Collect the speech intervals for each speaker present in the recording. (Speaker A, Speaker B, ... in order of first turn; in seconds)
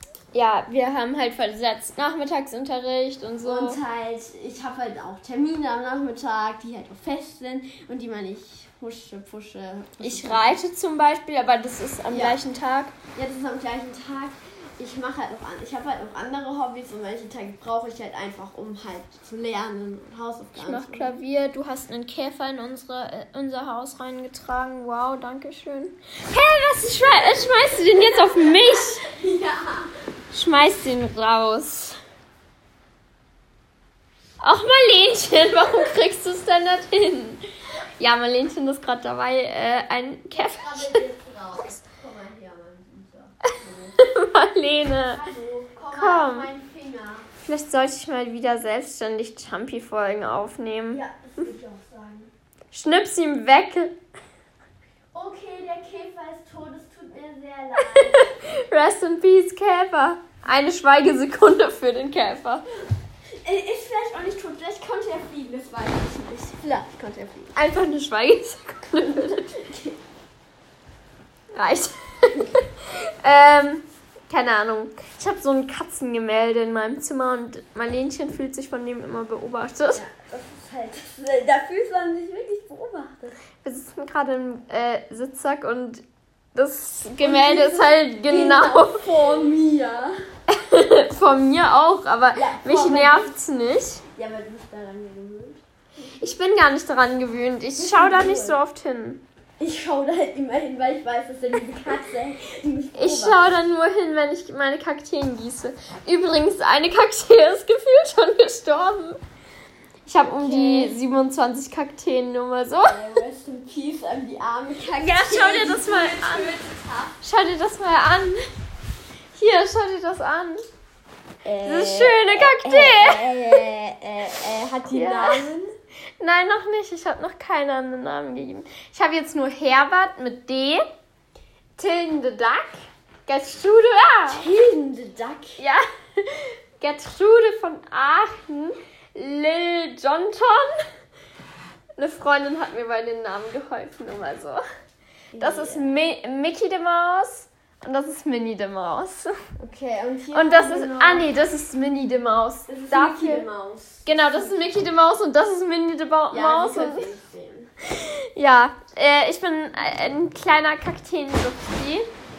Speaker A: 0.3-3.8, 10.0-12.9, 20.6-29.0, 30.3-31.9, 34.4-37.4, 38.0-41.0, 44.0-45.2, 45.9-46.5, 47.4-51.5, 52.7-54.0, 57.8-62.6, 67.5-69.8, 71.5-80.0, 83.5-89.0, 90.5-94.0, 96.2-99.2, 102.9-109.2, 110.0-113.0, 115.0-116.6, 117.2-118.4, 119.3-120.6, 121.6-123.2, 124.9-125.5, 126.2-130.8, 131.8-134.5, 135.6-140.7, 142.0-144.6, 145.4-149.3, 150.3-153.4, 154.1-157.1, 158.0-162.1
Speaker B: 3.4-10.6, 12.1-12.4, 13.1-21.1, 28.8-29.9, 40.3-44.0, 45.1-47.3, 50.9-52.3, 55.1-58.2, 63.4-67.5, 79.9-83.4, 87.2-90.1, 92.3-93.3, 94.1-96.3, 97.8-98.6, 99.6-103.5, 110.2-111.0, 112.8-117.2, 121.4-125.7, 134.3-135.6, 145.3-145.9, 149.6-151.3, 152.7-154.7, 156.3-157.7